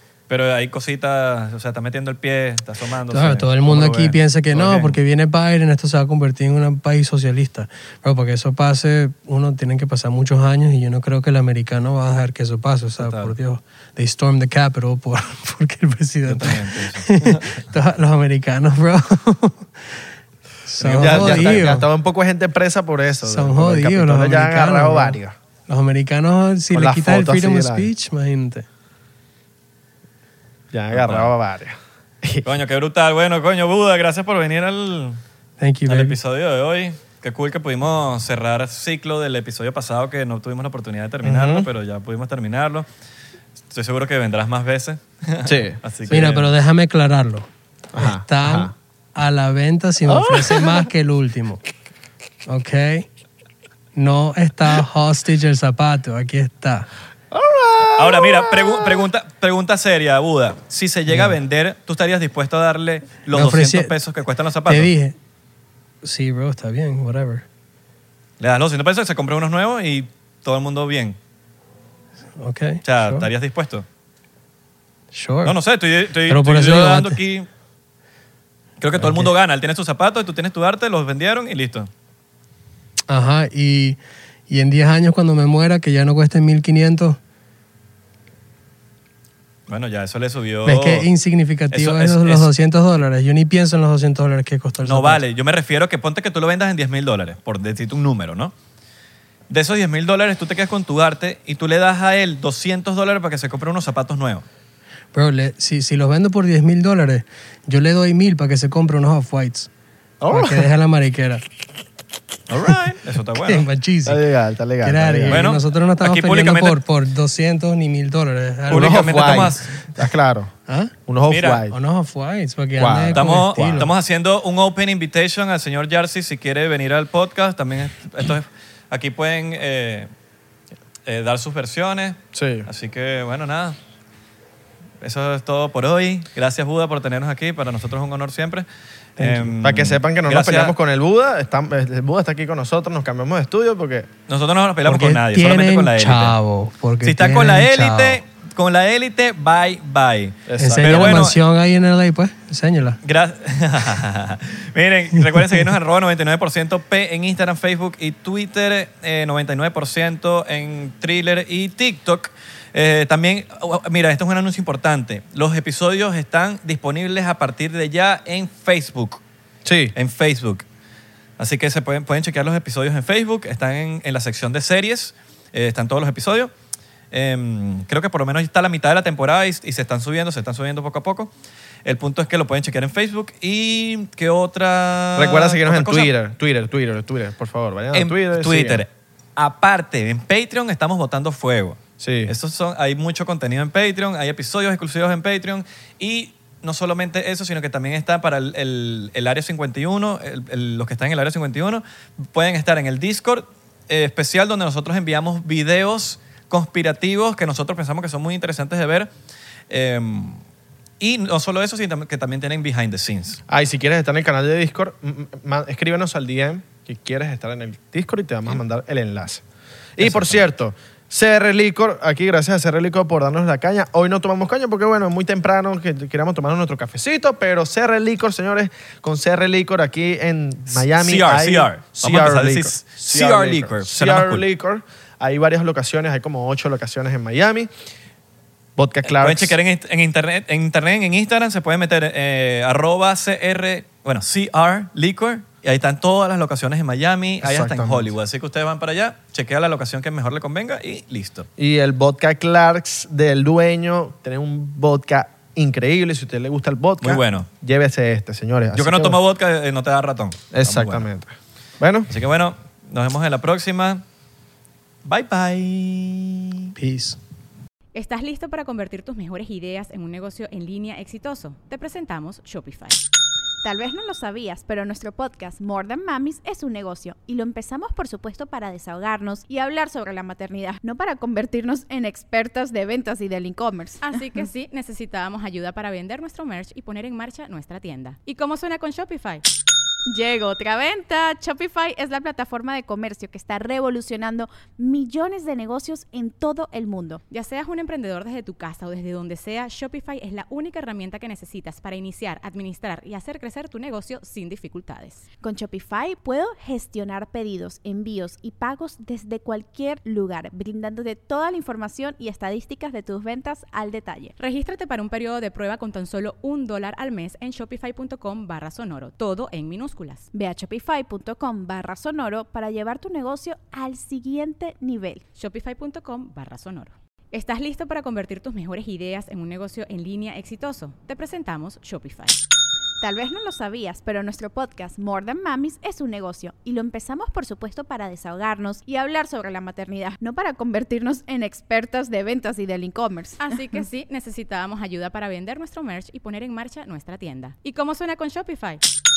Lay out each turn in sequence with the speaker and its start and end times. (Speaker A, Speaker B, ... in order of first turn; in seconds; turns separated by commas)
Speaker A: 0.3-5.0, Speaker B: 3.1-20.0, Speaker A: 13.0-13.3, Speaker A: 16.3-17.7, Speaker B: 20.7-21.9, Speaker A: 20.8-21.6, Speaker C: 20.9-25.4, Speaker B: 23.2-28.7, Speaker C: 26.7-27.9, Speaker C: 30.7-32.5, Speaker A: 30.9-31.3, Speaker A: 32.4-35.2, Speaker B: 35.6-36.2, Speaker A: 35.9-42.9, Speaker C: 41.2-41.7, Speaker A: 43.7-46.5, Speaker C: 45.4-46.2, Speaker B: 46.1-51.6, Speaker C: 47.9-48.7, Speaker C: 50.1-50.9, Speaker B: 52.5-53.1, Speaker B: 54.0-56.9, Speaker C: 57.3-59.1, Speaker A: 58.0-64.9, Speaker B: 61.1-61.4, Speaker B: 63.3-64.0, Speaker B: 64.7-65.2, Speaker B: 66.0-67.5, Speaker A: 68.4-71.2, Speaker B: 72.4-73.3, Speaker A: 72.8-73.9, Speaker B: 75.1-75.6, Speaker A: 75.5-77.5, Speaker B: 76.3-77.2, Speaker A: 78.8-81.9, Speaker B: 79.0-79.3, Speaker B: 83.1-84.0, Speaker B: 84.5-87.2, Speaker A: 89.7-91.1, Speaker B: 90.6-95.2, Speaker A: 91.7-92.5, Speaker A: 94.9-98.5, Speaker A: 99.5-104.5, Speaker B: 105.1-109.7, Speaker C: 110.2-110.7, Speaker B: 110.3-111.4, Speaker A: 112.5-113.7, Speaker B: 113.4-114.2, Speaker C: 114.0-115.5, Speaker B: 114.8-119.5, Speaker A: 115.3-116.8, Speaker A: 118.7-119.7, Speaker C: 118.7-120.5, Speaker B: 120.7-120.9, Speaker C: 121.1-121.8, Speaker A: 121.3-121.6, Speaker B: 121.7-123.9, Speaker C: 122.8-123.9, Speaker A: 123.1-130.1, Speaker A: 131.1-133.8, Speaker C: 132.3-132.7, Speaker A: 135.0-138.7, Speaker B: 139.2-139.5, Speaker A: 139.2-140.8, Speaker C: 139.6-144.1, Speaker A: 144.3-146.3, Speaker B: 144.8-148.2, Speaker A: 147.0-151.4, Speaker C: 150.5-151.3, Speaker B: 150.6-153.0, Speaker A: 153.0-169.2, Speaker C: 169.7-169.9, Speaker A: 169.9-170.7, Speaker A: 171.4-176.5, Speaker A: 177.1-181.3, Speaker A: 181.8-186.1, Speaker C: 185.2-188.8, Speaker A: 187.9-209.1, Speaker C: 192.0-192.3, Speaker A: 209.7-210.4, Speaker A: 211.0-213.4, Speaker C: 213.5-219.4, Speaker C: 220.0-237.7, Speaker A: 220.0-220.4, Speaker A: 230.7-234.4, Speaker C: 238.8-239.6, Speaker A: 239.1-251.5, Speaker C: 247.4-248.1, Speaker C: 251.6-259.2, Speaker A: 257.0-257.5, Speaker A: 258.8-261.1, Speaker C: 260.5-262.1, Speaker A: 262.1-264.0, Speaker A: 265.1-266.7, Speaker B: 266.8-267.2, Speaker D: 267.9-273.0, Speaker E: 273.6-284.2, Speaker D: 284.0-289.4, Speaker E: 290.1-297.2, Speaker D: 297.3-305.2, Speaker E: 305.4-314.3, Speaker D: 314.4-320.3, Speaker E: 320.3-325.2, Speaker D: 325.4-332.4, Speaker E: 333.0-343.6, Speaker D: 343.4-348.8